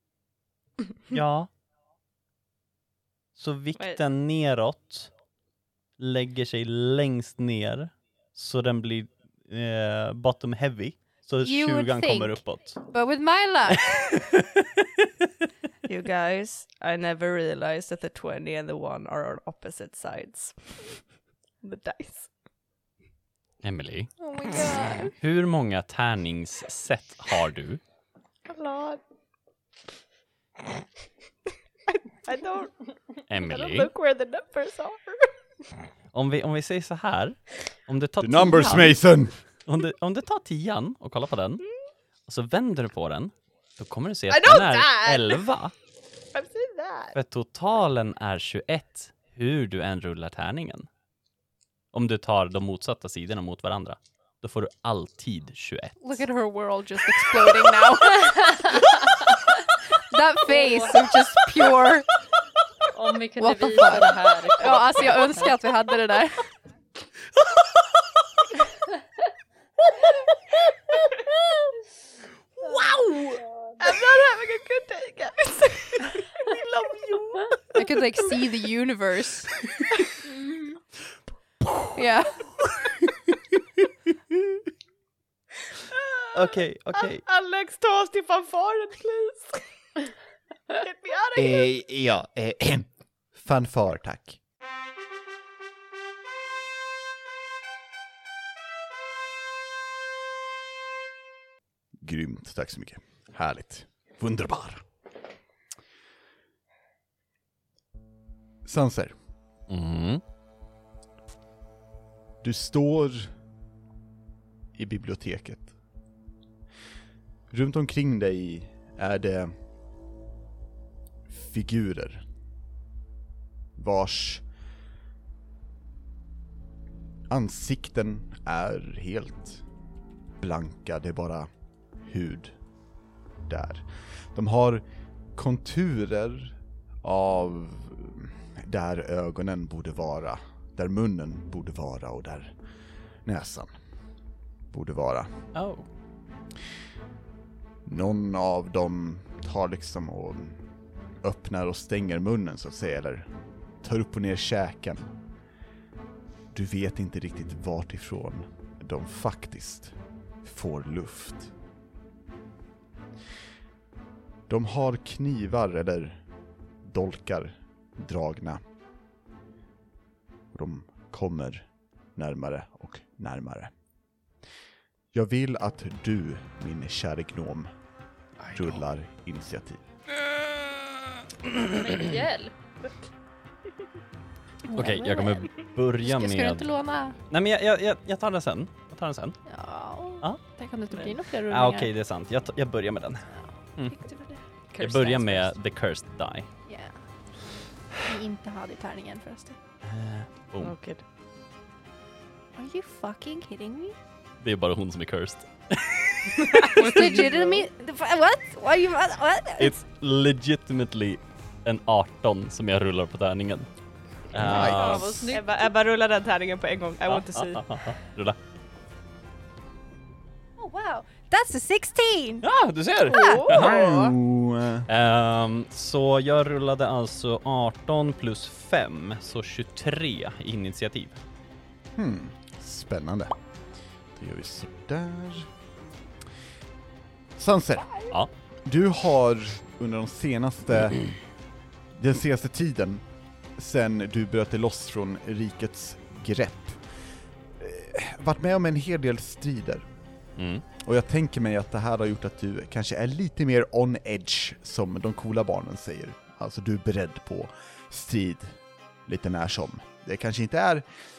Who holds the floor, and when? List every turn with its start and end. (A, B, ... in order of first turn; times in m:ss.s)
0:01.1-0:01.5 A
0:03.4-0:05.1 A
0:06.0-0:12.8 A
0:11.4-0:14.1 B
0:13.9-0:15.0 A
0:15.8-0:20.8 C
0:21.6-0:22.3 C
0:23.6-0:24.1 A
0:24.2-0:25.1 B
0:25.2-0:27.8 A
0:28.5-0:29.0 C
0:31.9-0:35.3 C
0:33.3-0:33.9 A
0:36.1-0:39.0 A
0:38.2-0:39.4 D
0:39.6-0:41.6 A
0:42.2-0:45.7 A
0:44.3-0:45.4 C
0:46.3-0:47.1 C
0:47.1-0:50.9 A
0:51.9-0:56.2 A
0:56.0-0:58.8 B
1:00.1-1:02.1 B
1:00.5-1:01.0 E
1:02.9-1:05.5 E
1:03.4-1:06.5 B
1:13.8-1:18.4 C
1:17.7-1:19.5 B
1:21.9-1:22.6 B
1:25.9-1:29.6 C
1:26.3-1:27.2 A
1:30.7-1:31.7 C
1:31.4-1:34.4 D
1:42.0-1:44.8 D
1:48.6-1:49.1 D
1:49.7-1:50.2 A
1:52.4-1:53.3 D
1:54.7-1:55.7 D
1:57.5-1:59.5 D
2:01.3-2:02.2 D
2:03.8-2:04.4 D
2:07.3-2:09.6 D
2:10.4-2:11.5 D
2:12.0-2:12.6 D
2:13.5-2:14.8 D
2:15.3-2:22.5 D
2:23.2-2:23.7 D
2:24.7-2:25.3 D
2:25.5-2:25.9 A
2:27.8-2:30.6 D
2:31.2-2:33.3 D
2:33.8-2:35.1 D
2:36.5-2:41.5 D
2:44.5-2:46.2 D
2:46.8-2:48.6 D
2:50.5-2:53.7 D
2:55.1-2:57.7 D
2:58.4-2:58.8 A
2:58.5-2:59.8 D
3:00.4-3:00.7 A
3:01.4-3:02.1 A
3:01.7-3:02.5 E
3:04.7-3:07.2 B
3:04.7-3:06.7 A
3:07.3-3:09.4 A
3:09.5-3:11.9 B
3:11.5-3:13.9 A
3:13.3-3:14.4 B
3:14.7-3:15.5 C
3:14.8-3:16.5 A
3:16.7-3:16.9 B
3:18.0-3:19.6 B
3:19.8-3:20.7 A
3:20.6-3:21.0 C
3:22.6-3:24.0 B
3:24.4-3:27.1 A
3:26.6-3:27.6 C
3:26.7-3:29.8 B
3:29.6-3:33.7 A
3:34.3-3:35.2 A
3:34.4-3:35.2 D
3:34.5-3:35.7 E
3:34.7-3:37.6 C
3:37.1-3:38.4 A
3:40.6-3:42.4 B
3:42.4-3:43.8 A
3:43.1-3:43.5 B
3:43.1-3:44.1 C
3:43.5-3:44.9 D
3:44.9-3:51.2 A
3:52.0-3:53.3 D
3:54.1-3:55.5 D
3:57.4-3:58.0 D
3:58.6-4:01.1 D
4:01.9-4:03.0 D
4:03.6-4:06.8 D
4:07.6-4:09.9 D
4:10.4-4:10.6 A
4:10.8-4:20.8 D